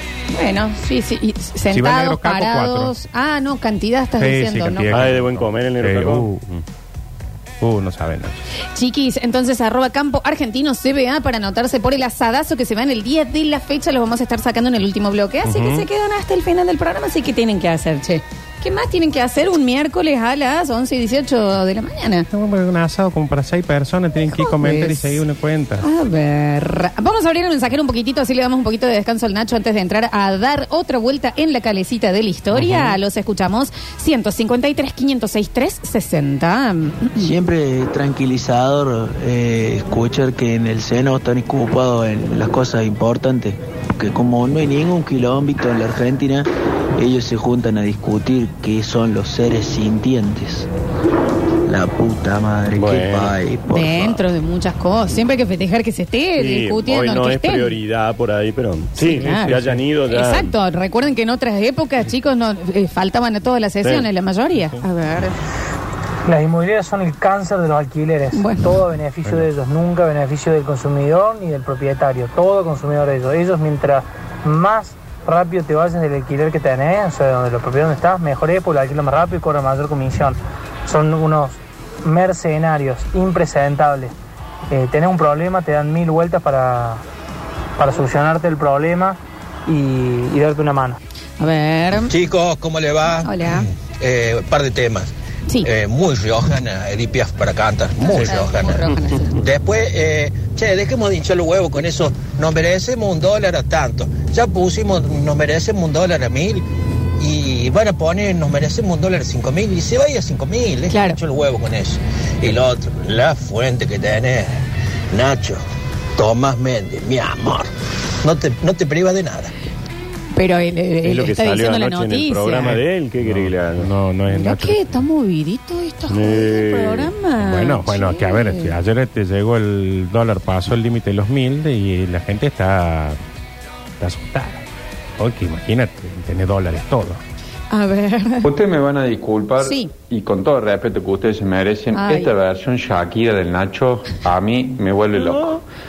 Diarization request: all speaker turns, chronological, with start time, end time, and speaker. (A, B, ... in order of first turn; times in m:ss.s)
0:00.3-0:05.1 A
0:01.7-0:02.9 B
0:04.2-0:06.6 B
0:04.9-0:06.3 C
0:07.6-0:08.4 B
0:08.7-0:22.3 A
0:15.4-0:15.9 B
0:22.3-0:25.8 B
0:24.3-0:25.2 A
0:25.8-0:37.3 A
0:32.6-0:33.0 B
0:37.1-0:50.7 D
0:51.6-0:54.3 D
0:52.7-0:53.3 C
0:53.7-0:57.8 A
0:56.4-1:00.5 C
0:59.0-1:05.4 A
0:59.2-0:59.8 B
1:06.2-1:24.1 E
1:08.3-1:08.8 A
1:09.2-1:09.5 B
1:24.7-1:27.0 E
1:27.8-1:31.0 E
1:31.4-1:32.1 A
1:32.1-1:33.2 F
1:33.2-1:33.7 A
1:34.0-1:35.1 F
1:35.6-1:46.6 F
1:38.0-1:39.4 A
1:47.2-1:54.5 F
1:50.9-1:51.2 A
1:55.1-1:55.6 F
1:56.2-1:57.7 F
1:58.2-1:59.5 F
2:00.3-2:02.8 A
2:01.0-2:03.9 C
2:02.7-2:04.9 B
2:04.3-2:08.8 A
2:06.1-2:07.1 C
2:07.4-2:13.2 B
2:14.0-2:14.6 B
2:15.2-2:17.2 B
2:17.7-2:18.5 A
2:18.4-2:25.6 G
2:19.6-2:19.9 A
2:21.9-2:22.3 A
2:25.2-2:25.6 C